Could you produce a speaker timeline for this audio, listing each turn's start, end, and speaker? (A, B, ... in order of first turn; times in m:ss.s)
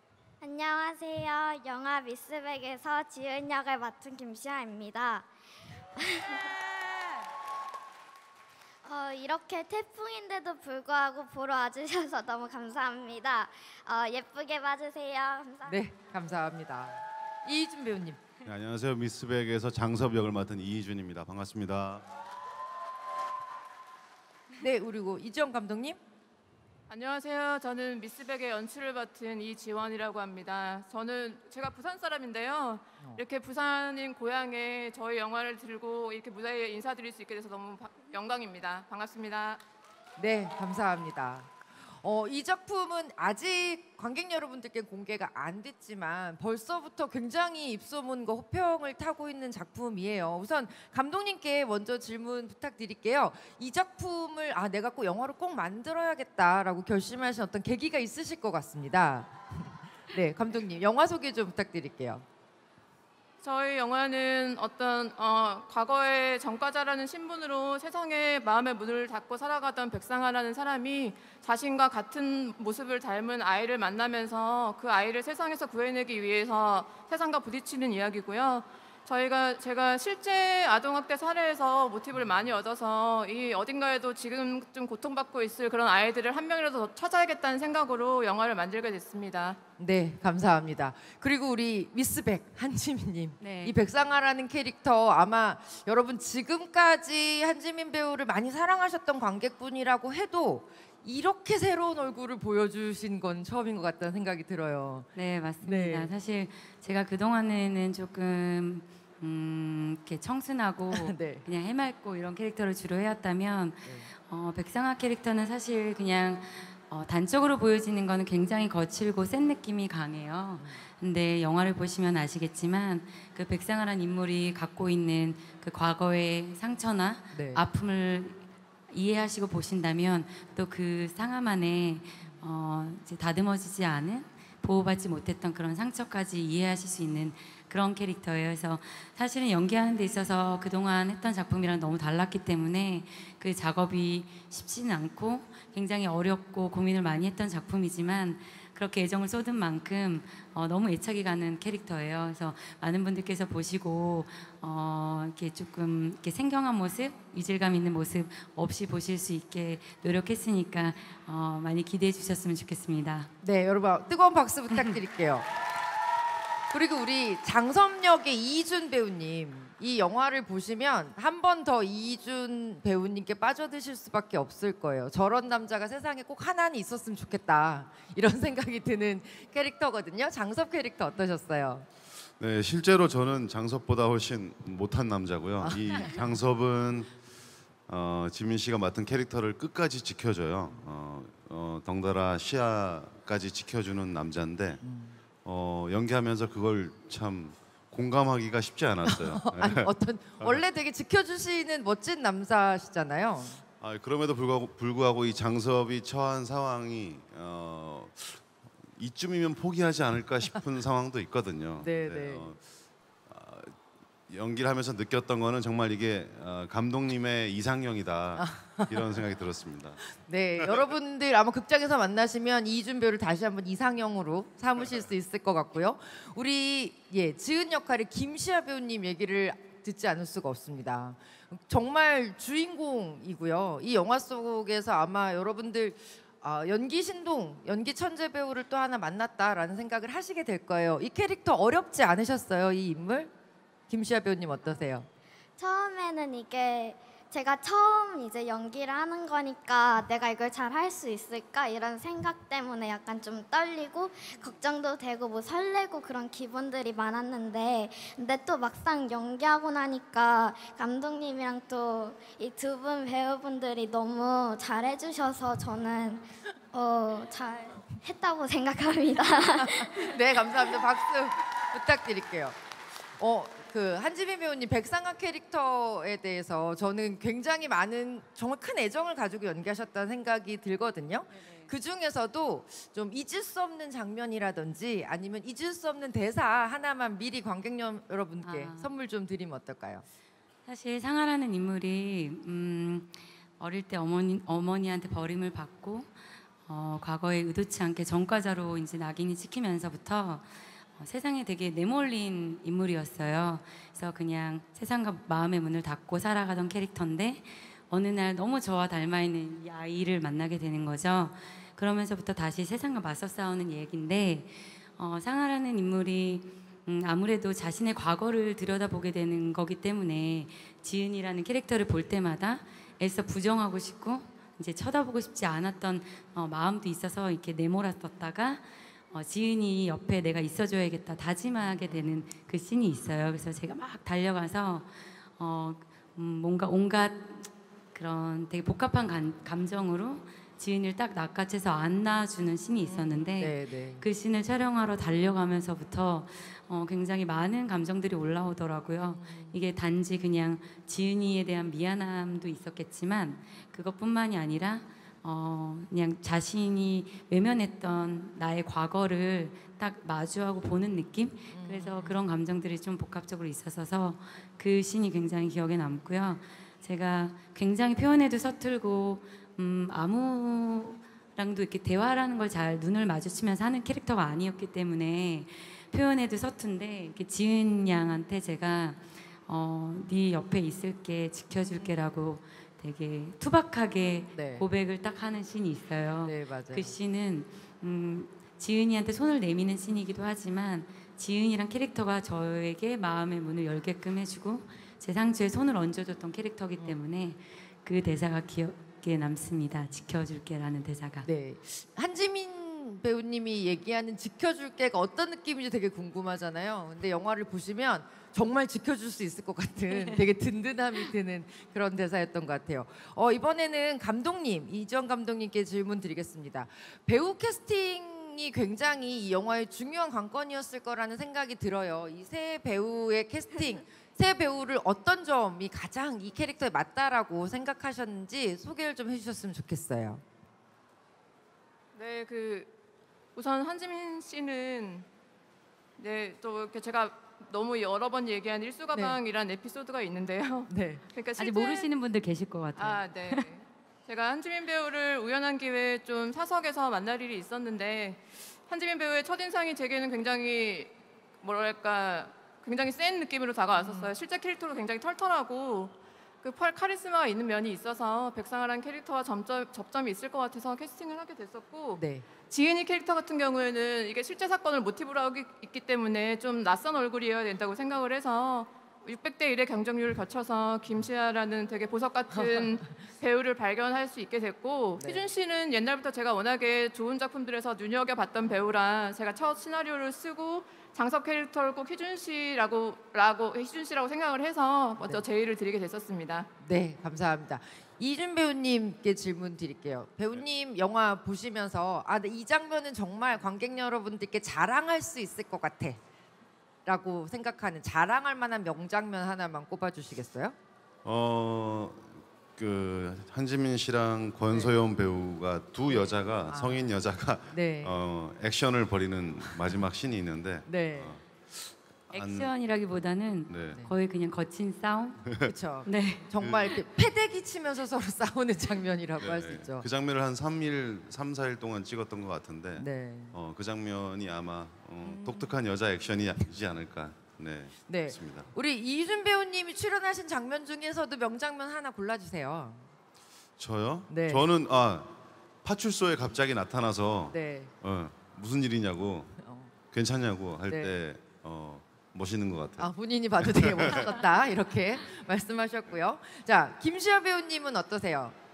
0:00.4-0:05.3 A
0:05.9-0:06.6 A
0:08.8-0:15.8 A
0:15.7-0:18.2 B
0:18.4-0:22.0 C
0:24.6-0:26.0 B
0:26.9-0:39.6 D
0:40.2-1:02.2 B
1:03.4-1:29.6 D
1:29.8-1:46.1 B
1:33.4-1:33.8 E
1:45.2-2:43.3 E
1:50.9-1:51.4 B
2:00.6-2:00.8 B
2:07.3-2:07.6 B
2:43.4-2:45.5 B
2:44.7-2:45.0 E
2:46.7-3:01.9 B
3:02.4-3:07.1 C
3:05.6-3:06.1 B
3:07.9-3:14.8 C
3:14.8-3:15.2 B
3:15.4-3:20.6 C
3:19.0-3:23.6 B
3:23.8-3:32.6 C
3:31.8-3:32.5 B
3:33.3-3:33.8 C
3:34.3-3:40.0 C
3:38.4-3:39.0 B
3:40.2-4:03.3 B
4:03.9-4:05.1 B
4:05.6-4:30.2 A
4:29.6-4:32.6 B
4:33.2-4:50.0 B
4:48.4-4:48.9 E
4:50.7-4:56.1 E
4:56.7-5:00.4 E
5:01.0-6:41.3 E
5:42.8-5:44.0 B
5:49.1-5:49.6 B
6:01.5-6:02.2 B
6:21.6-6:21.9 B
6:24.3-6:24.6 B
6:26.2-6:27.0 B
6:41.2-7:10.2 B
7:12.0-7:12.7 D
7:13.4-7:15.1 D
7:16.0-7:21.9 D
7:18.9-7:19.2 B
7:20.7-7:21.0 B
7:21.4-7:23.4 E
7:22.8-8:06.5 D
7:33.8-7:34.1 B
7:42.0-7:42.2 B
7:55.0-7:55.3 B
8:05.0-8:05.2 B
8:06.6-8:16.0 B
8:16.9-8:20.6 B
8:21.0-8:32.5 C
8:24.5-8:24.8 B
8:25.9-8:26.9 B
8:27.5-8:28.0 B
8:30.7-8:31.2 B
8:32.1-8:35.3 E
8:33.5-8:33.9 C
8:35.2-8:35.5 C
8:35.4-8:39.9 B
8:35.8-8:36.3 E
8:36.4-8:36.8 C
8:39.2-8:48.5 C
8:42.8-8:43.4 B
8:45.0-8:45.5 B
8:47.9-8:52.9 B
8:53.6-8:59.4 C
8:54.1-8:54.5 B
8:57.3-8:57.7 B
8:59.4-8:59.7 B
8:59.9-9:02.9 C
9:00.7-9:00.9 B
9:02.8-9:08.4 B
9:03.5-9:04.1 C